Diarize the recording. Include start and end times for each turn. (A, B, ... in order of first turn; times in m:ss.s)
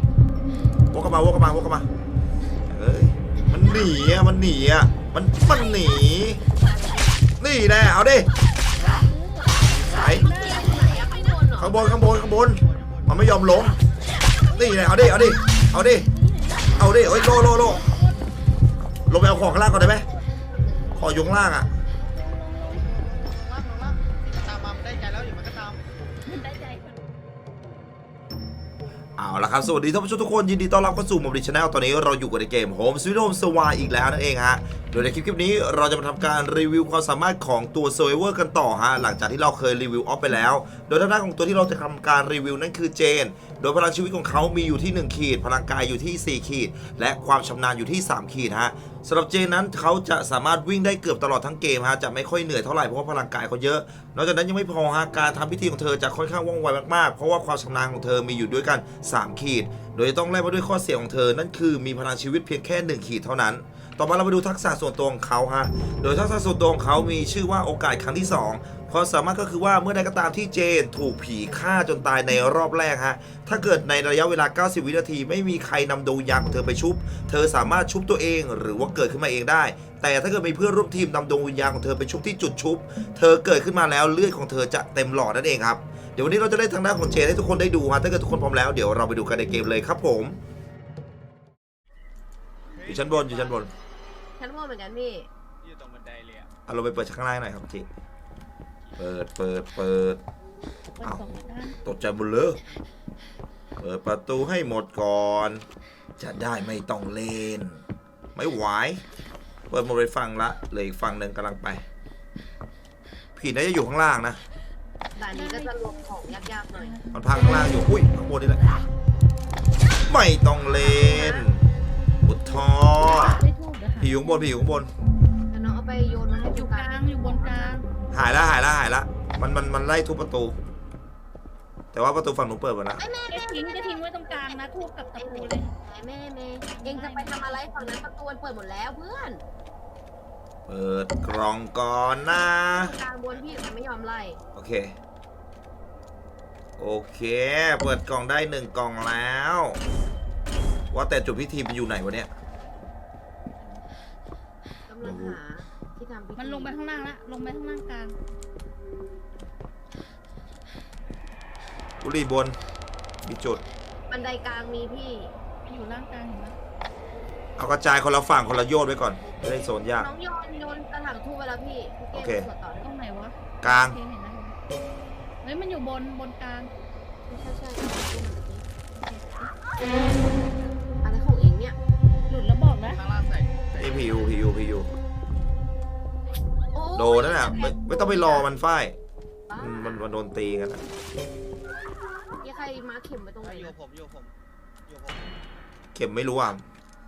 0:00.9-0:01.9 A
0:02.7-0:06.4 A
0:05.5-0:05.9 B
0:06.4-0:07.2 B
0:07.4-0:08.3 A
0:08.8-0:11.2 C
0:09.8-0:10.3 A
0:10.1-0:12.1 B
0:11.6-0:13.8 A
0:12.1-0:13.8 D
0:14.4-0:15.2 C
0:14.6-0:16.1 A
0:16.0-0:18.2 C
0:16.8-0:17.8 A
0:19.1-0:20.0 A
0:19.6-0:20.2 C
0:20.7-0:21.1 B
0:21.0-0:21.7 A
0:22.0-0:22.9 C
0:22.8-0:25.8 D
0:26.2-0:27.0 C
0:29.2-1:30.4 A
1:32.7-1:33.7 D
1:32.9-1:33.7 A
1:34.4-1:35.3 B
1:35.6-1:36.5 D
1:36.7-1:37.9 A
1:39.0-1:40.2 A
1:41.0-1:41.8 C
1:41.8-1:42.6 A
1:43.8-1:45.6 A
1:46.2-1:47.8 A
1:48.4-1:49.0 A
1:49.7-1:51.8 A
1:53.4-1:54.4 A
1:55.2-1:56.9 B
1:55.3-1:57.2 C
1:57.1-1:58.6 A
2:00.1-2:01.6 A
2:00.8-2:01.5 B
2:02.2-2:03.4 A
2:02.8-2:04.7 C
2:04.0-2:04.9 A
2:05.5-2:07.7 B
2:06.5-2:07.8 C
2:08.1-2:10.6 A
2:11.9-2:13.0 A
2:13.0-2:19.4 B
2:13.3-2:15.8 C
2:16.7-2:18.1 C
2:20.7-2:23.0 A
2:22.6-2:24.4 B
2:24.6-2:25.0 A
2:26.8-2:29.8 A
2:30.9-2:32.3 A
2:34.9-2:36.8 B
2:35.0-2:35.4 A
2:36.4-2:38.2 C
2:42.0-2:42.6 A
2:43.2-2:43.6 A
2:44.1-2:45.3 B
2:45.6-2:46.6 C
2:47.6-2:50.1 A
2:49.9-2:52.9 B
2:52.1-2:52.5 A
2:52.8-2:54.6 C
2:53.6-2:54.0 A
2:55.4-2:56.7 C
2:57.3-2:58.6 B
2:59.0-2:59.5 C
3:01.0-3:01.8 B
3:02.3-3:03.0 C
3:02.9-3:04.4 D
3:03.8-3:04.9 A
3:06.7-3:08.5 B
3:07.0-3:09.0 A
3:09.5-3:10.0 B
3:09.6-3:10.8 A
3:12.4-3:13.7 B
3:13.4-3:14.3 D
3:14.9-3:15.4 D
3:16.0-3:16.6 A